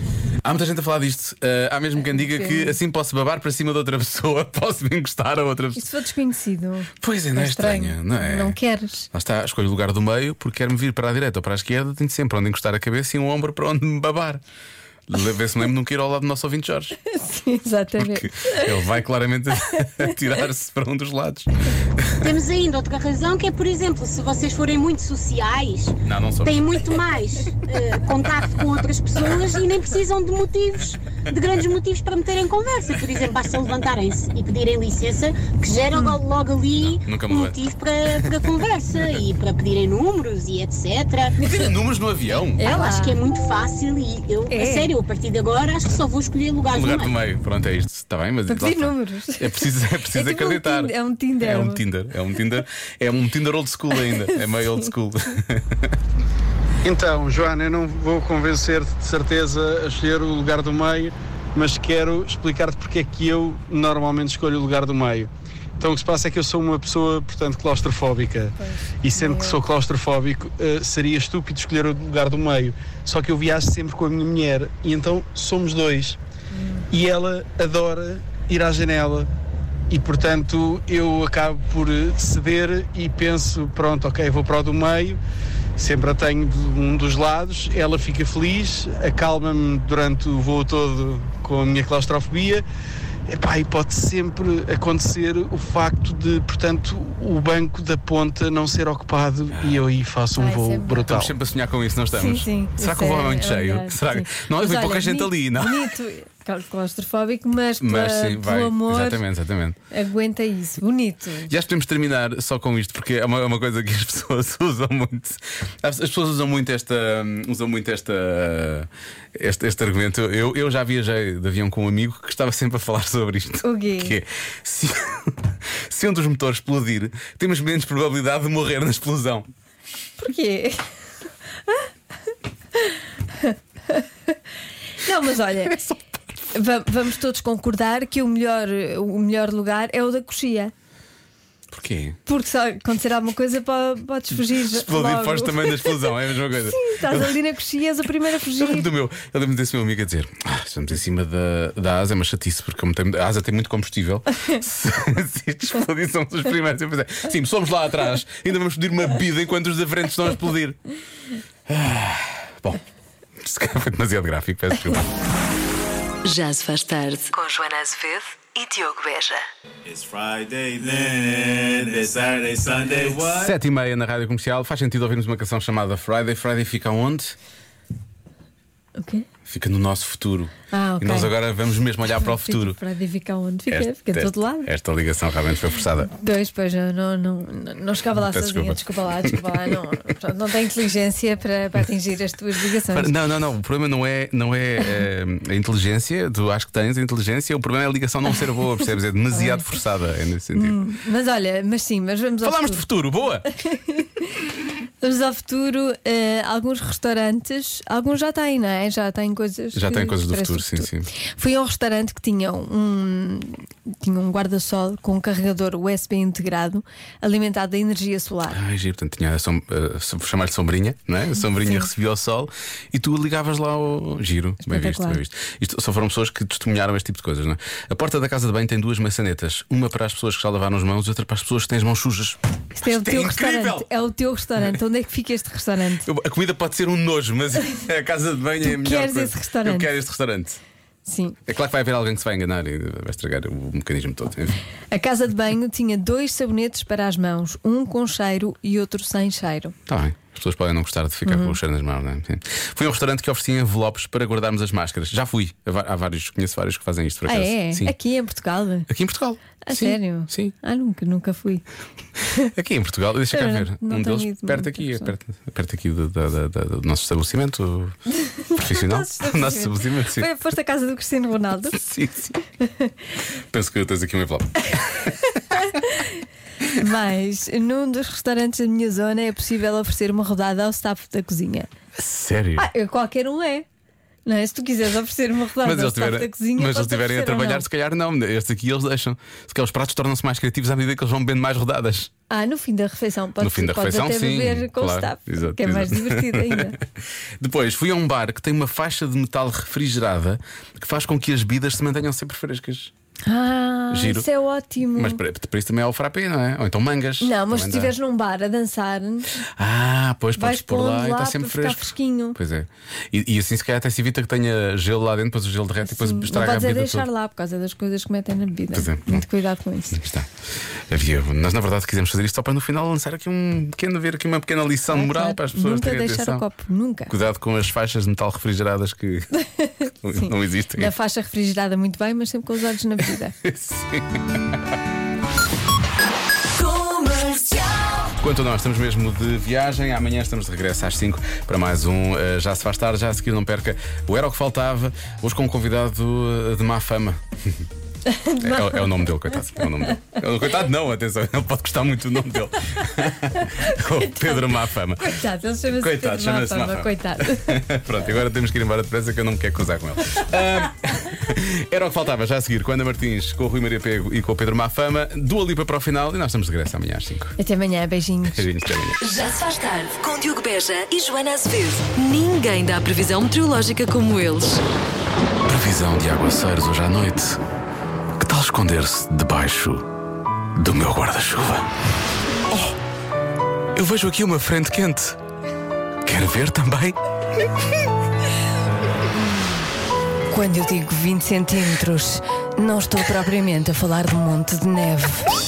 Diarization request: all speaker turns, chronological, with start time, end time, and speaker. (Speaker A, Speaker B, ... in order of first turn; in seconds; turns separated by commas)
Speaker A: 0.4-5.8, Speaker B: 2.1-2.8, Speaker B: 5.7-9.1, Speaker A: 7.0-8.6, Speaker A: 9.1-14.4, Speaker A: 15.1-17.0, Speaker B: 17.1-18.7, Speaker A: 18.0-22.3, Speaker B: 19.8-20.1, Speaker C: 22.2-41.3, Speaker A: 26.0-26.8, Speaker A: 36.8-37.6, Speaker B: 41.4-41.7, Speaker A: 41.4-42.6, Speaker B: 42.6-43.2, Speaker C: 42.6-47.1, Speaker B: 44.5-44.9, Speaker A: 46.7-55.9, Speaker B: 48.5-51.8, Speaker B: 53.9-54.9, Speaker D: 56.8-76.2, Speaker B: 68.6-69.6, Speaker B: 76.5-76.8, Speaker D: 76.9-79.3, Speaker D: 79.9-85.2, Speaker D: 85.8-92.6, Speaker D: 93.3-101.3, Speaker A: 99.5-99.8, Speaker B: 100.4-101.1, Speaker A: 101.1-105.9, Speaker B: 102.1-109.2, Speaker A: 107.8-109.8, Speaker B: 109.9-111.5, Speaker A: 111.5-129.5, Speaker B: 123.6-124.2, Speaker B: 130.2-130.8, Speaker B: 132.8-134.3, Speaker B: 135.0-135.8, Speaker B: 136.5-140.7, Speaker A: 141.7-142.2, Speaker B: 142.2-148.9, Speaker A: 144.5-147.3, Speaker A: 148.6-160.8, Speaker A: 161.7-162.8, Speaker A: 163.4-165.1, Speaker E: 166.2-169.4, Speaker F: 169.8-173.4, Speaker A: 172.8-177.3, Speaker B: 179.0-179.2, Speaker A: 179.4-182.8, Speaker B: 180.7-181.3, Speaker B: 182.2-184.7, Speaker A: 183.7-186.1, Speaker B: 186.1-193.1, Speaker A: 188.2-189.7, Speaker A: 192.9-200.8, Speaker B: 199.3-199.7, Speaker B: 200.5-202.8, Speaker A: 202.4-203.4, Speaker B: 203.6-204.5, Speaker B: 205.0-218.6, Speaker A: 209.7-211.1, Speaker A: 218.5-233.9, Speaker B: 221.6-221.9, Speaker B: 224.6-225.2, Speaker B: 232.8-236.1, Speaker A: 236.0-240.6, Speaker B: 238.6-239.9, Speaker B: 241.1-241.4, Speaker A: 241.5-244.6, Speaker B: 244.9-249.7, Speaker A: 249.9-257.9, Speaker B: 251.2-251.6, Speaker B: 257.3-258.9, Speaker A: 258.9-260.5, Speaker B: 259.6-261.6, Speaker A: 262.5-267.9, Speaker B: 263.3-265.1, Speaker B: 268.3-271.8, Speaker A: 268.6-270.3, Speaker A: 271.7-272.4, Speaker B: 272.6-272.9, Speaker A: 273.5-275.3, Speaker B: 275.5-276.1, Speaker B: 276.8-281.7, Speaker A: 281.9-282.7, Speaker B: 282.6-283.6, Speaker B: 284.2-287.6, Speaker A: 285.6-292.1, Speaker B: 292.3-296.8, Speaker A: 293.4-296.8, Speaker A: 297.4-302.9, Speaker B: 303.2-305.2, Speaker A: 303.9-304.3, Speaker A: 304.9-307.9, Speaker B: 307.2-309.3, Speaker A: 309.6-317.1, Speaker B: 310.4-312.4, Speaker B: 315.8-320.0, Speaker A: 318.7-319.2, Speaker A: 319.9-320.3, Speaker A: 320.9-326.4, Speaker B: 324.9-327.1, Speaker A: 327.1-329.3, Speaker B: 329.4-333.3, Speaker A: 330.0-330.9, Speaker A: 333.4-334.4, Speaker E: 336.7-337.9, Speaker A: 338.2-347.6, Speaker B: 348.1-350.0, Speaker A: 348.4-367.3, Speaker B: 353.4-357.6, Speaker B: 367.4-368.4, Speaker A: 368.3-369.0, Speaker E: 369.0-374.6, Speaker A: 375.4-377.4, Speaker A: 378.2-379.8, Speaker A: 380.6-381.7, Speaker A: 383.7-385.2, Speaker A: 386.0-387.0, Speaker B: 390.3-395.3